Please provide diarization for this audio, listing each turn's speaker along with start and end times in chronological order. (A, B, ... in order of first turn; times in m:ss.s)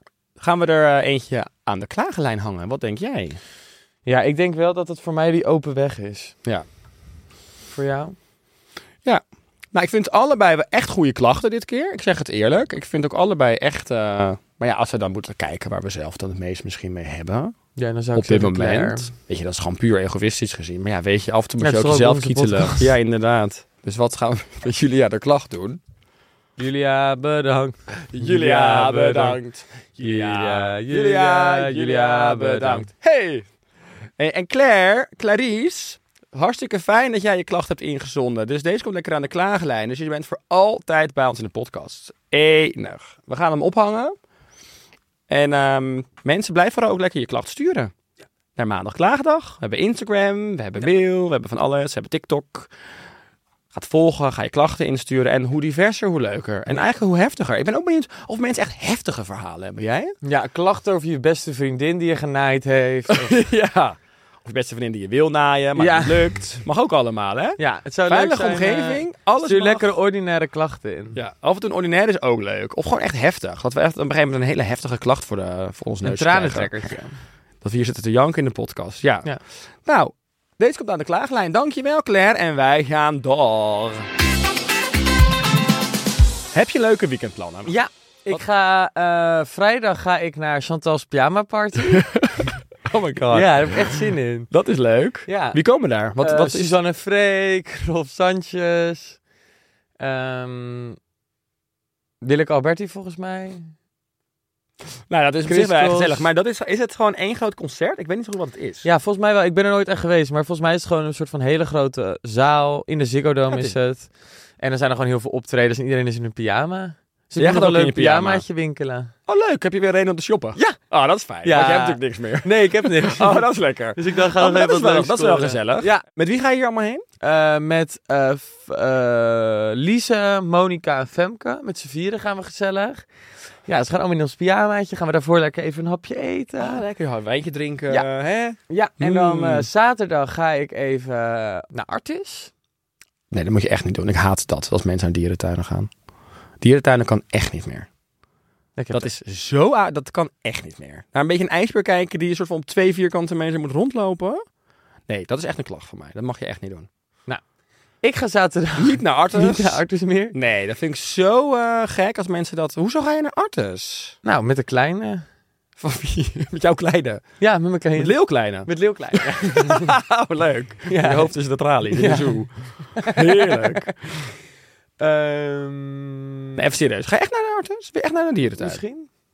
0:00.4-0:03.4 A
0:04.1-0:06.4 B
0:07.7-0:08.2 B
0:09.7-0:17.6 A
0:17.8-0:19.1 B
0:18.2-0:25.8 A
0:21.6-0:22.9 B
0:26.6-0:29.4 B
0:28.1-0:33.4 A
0:30.0-0:32.9 B
0:34.2-0:44.2 A
0:45.3-0:47.9 A
0:48.6-0:52.7 A
0:53.7-1:00.2 A
1:00.2-1:03.4 B
1:03.1-1:09.9 A
1:05.8-1:06.4 B
1:07.6-1:11.2 B
1:11.2-1:17.0 A
1:16.0-1:17.2 B
1:17.6-1:19.3 A
1:19.9-1:24.1 A
1:26.5-1:27.8 A
1:27.7-1:32.1 B
1:31.8-1:34.0 A
1:33.3-1:34.5 B
1:34.5-1:36.8 A
1:35.3-1:35.6 B
1:36.2-1:39.2 B
1:40.0-1:41.0 B
1:42.2-1:43.7 B
1:45.1-1:48.9 A
1:45.4-1:46.3 B
1:48.8-1:59.1 B
1:57.4-1:58.4 A
1:59.3-2:07.0 A
2:01.4-2:06.0 B
2:07.2-2:13.1 B
2:13.7-2:16.8 B
2:16.6-2:19.7 A
2:18.7-2:22.5 B
2:23.3-2:25.9 A
2:26.6-2:27.9 A
2:28.8-2:29.1 B
2:28.9-2:34.4 A
2:35.1-2:36.9 A
2:38.0-2:40.4 B
2:38.8-2:39.8 A
2:40.3-2:44.2 A
2:44.2-2:45.2 B
2:45.8-2:47.2 A
2:47.4-2:50.0 B
2:48.0-2:54.3 A
2:50.9-2:51.3 B
2:51.9-2:52.4 B
2:53.0-2:53.9 B
2:55.0-2:56.6 B
2:56.6-2:58.8 A
2:58.6-2:59.1 B